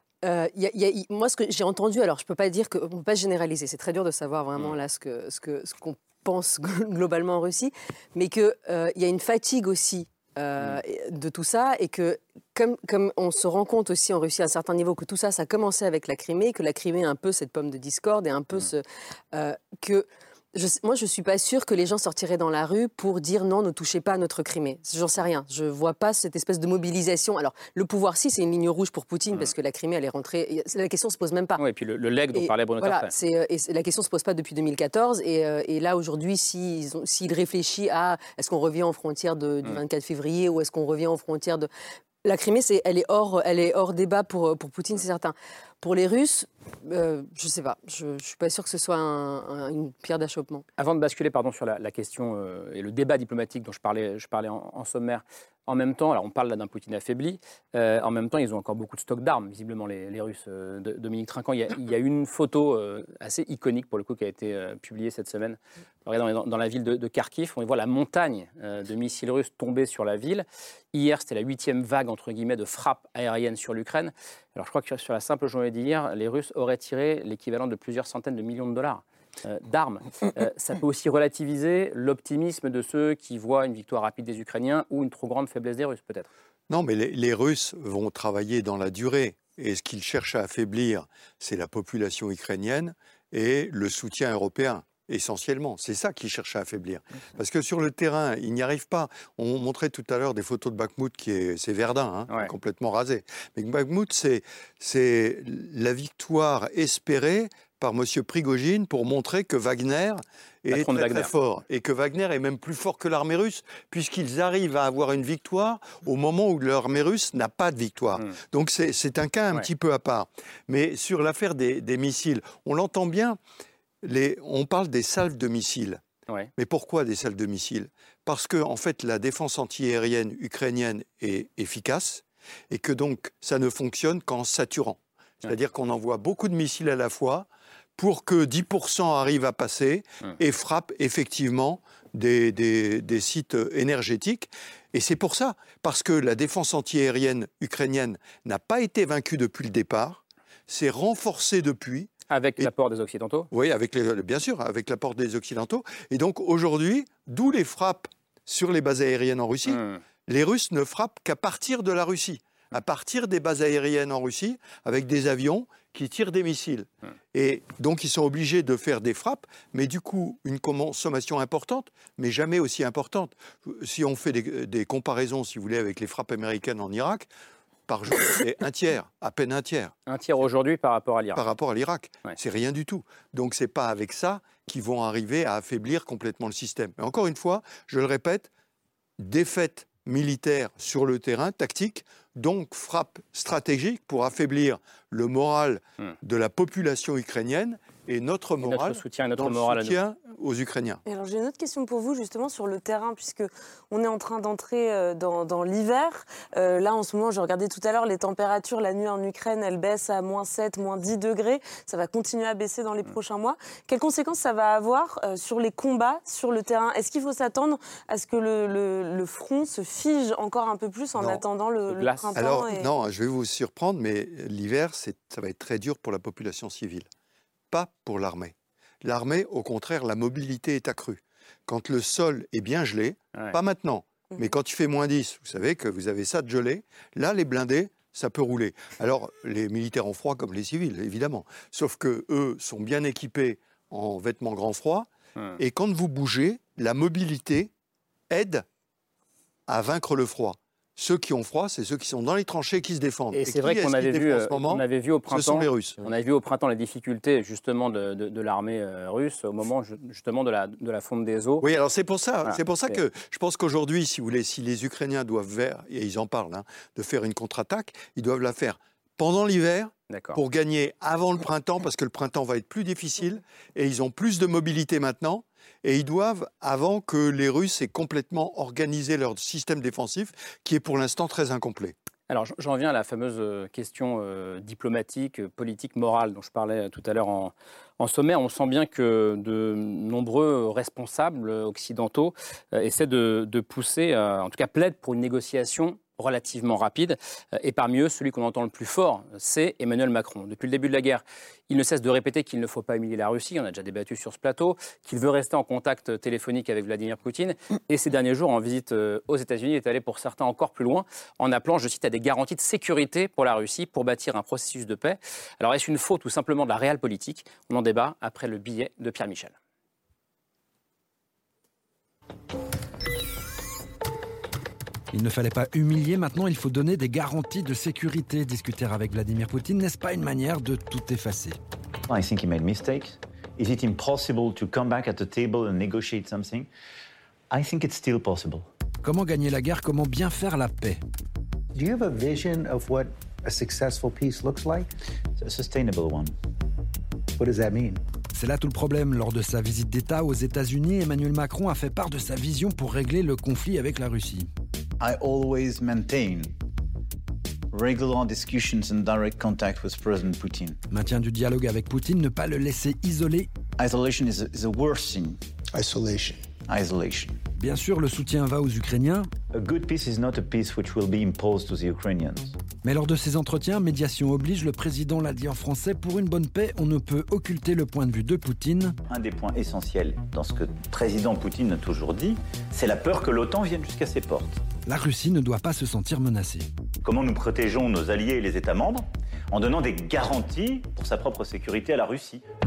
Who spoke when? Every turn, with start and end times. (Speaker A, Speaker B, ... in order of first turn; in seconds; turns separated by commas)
Speaker A: 0.2-31.6, Speaker B: 31.6-33.1, Speaker A: 32.3-41.7, Speaker A: 42.2-50.6, Speaker B: 50.8-86.3, Speaker C: 86.7-123.4, Speaker B: 110.7-111.3, Speaker C: 124.0-126.0, Speaker C: 126.5-152.7, Speaker B: 152.3-153.5, Speaker C: 153.5-177.3, Speaker C: 177.9-179.9, Speaker B: 180.1-181.4, Speaker C: 181.3-188.5, Speaker C: 189.2-201.0, Speaker B: 198.6-200.0, Speaker D: 201.0-222.9, Speaker B: 221.2-222.5, Speaker C: 222.3-227.1, Speaker C: 227.7-247.7, Speaker C: 248.3-248.6, Speaker C: 249.7-256.0, Speaker B: 253.3-261.6, Speaker C: 261.6-281.9, Speaker B: 262.4-263.0, Speaker B: 270.1-270.4, Speaker B: 282.3-319.5, Speaker E: 325.1-331.6, Speaker F: 332.1-336.7, Speaker F: 337.5-338.6, Speaker E: 339.0-341.0, Speaker G: 341.7-344.9, Speaker F: 345.4-346.3, Speaker G: 347.4-348.0, Speaker E: 348.3-354.5, Speaker F: 355.0-356.5, Speaker F: 357.7-360.8, Speaker E: 360.9-363.5, Speaker F: 363.8-365.4, Speaker G: 365.7-366.5, Speaker F: 366.7-367.4, Speaker E: 367.6-369.3, Speaker F: 369.5-372.5, Speaker E: 372.8-379.0, Speaker F: 379.1-384.6, Speaker E: 384.9-386.7, Speaker F: 387.0-392.4